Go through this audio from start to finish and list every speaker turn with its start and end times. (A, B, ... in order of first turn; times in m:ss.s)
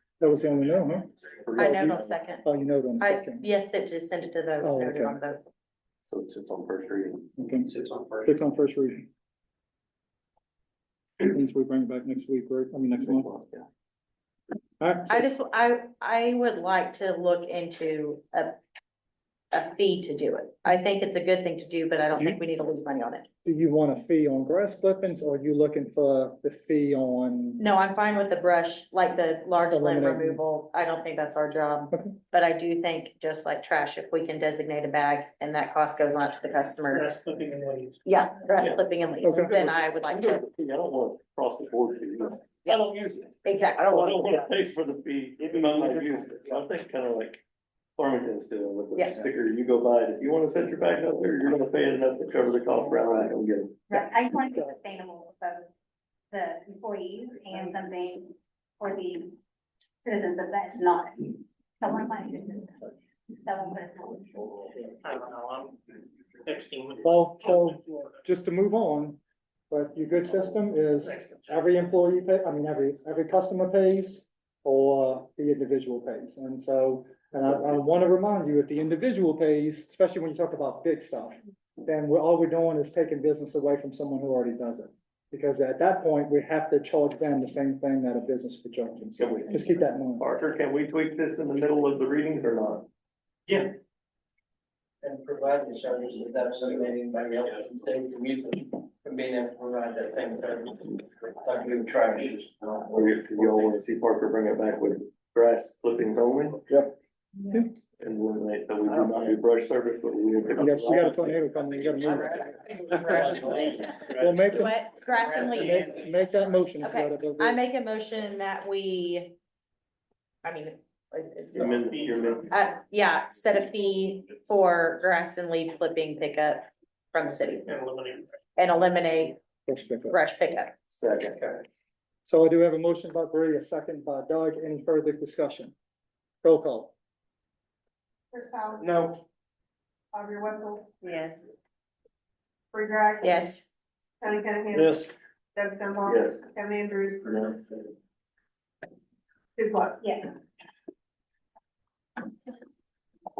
0:00.2-0:01.9 A
0:01.5-0:02.0 B
0:01.5-0:02.4 C
0:02.4-0:03.4 A
0:03.0-0:05.4 C
0:04.6-0:05.2 A
0:06.1-0:07.3 B
0:07.4-0:07.7 A
0:07.7-0:08.3 D
0:08.2-0:09.1 A
0:11.2-0:13.3 A
0:13.0-0:13.6 B
0:14.8-0:15.3 A
0:15.1-0:18.6 C
0:19.5-0:23.3 C
0:23.4-0:27.6 A
0:27.6-0:37.2 C
0:29.7-0:30.4 A
0:31.9-0:32.2 A
0:36.9-0:38.0 E
0:38.0-0:40.4 C
0:38.6-0:47.4 B
0:39.2-0:39.5 A
0:42.6-0:42.9 C
0:43.4-0:43.9 C
0:43.8-0:44.5 F
0:45.4-0:46.6 F
0:48.0-0:53.9 B
0:49.0-0:49.2 C
0:53.9-0:55.7 G
0:56.3-0:59.3 G
1:00.0-1:04.5 G
1:04.8-1:05.8 E
1:06.4-1:08.1 E
1:07.0-1:09.2 A
1:09.7-1:30.2 A
1:29.2-1:32.9 B
1:35.0-1:43.7 D
1:42.9-1:46.7 B
1:48.0-1:51.4 B
1:50.6-1:54.8 A
1:52.1-1:54.5 D
1:53.1-1:55.9 C
1:55.3-1:55.8 D
1:55.5-1:57.6 A
1:56.8-1:59.3 C
2:00.4-2:01.8 C
2:01.5-2:02.5 B
2:02.5-2:07.6 C
2:07.7-2:08.3 E
2:08.6-2:09.4 C
2:09.7-2:10.2 A
2:10.1-2:10.8 C
2:10.9-2:11.5 B
2:12.2-2:15.7 A
2:16.4-2:16.9 A
2:18.3-2:18.9 H
2:18.8-2:19.2 F
2:20.1-2:21.0 H
2:22.7-2:23.5 H
2:23.2-2:23.6 C
2:24.2-2:27.5 H
2:26.0-2:26.4 B
2:29.6-2:30.1 H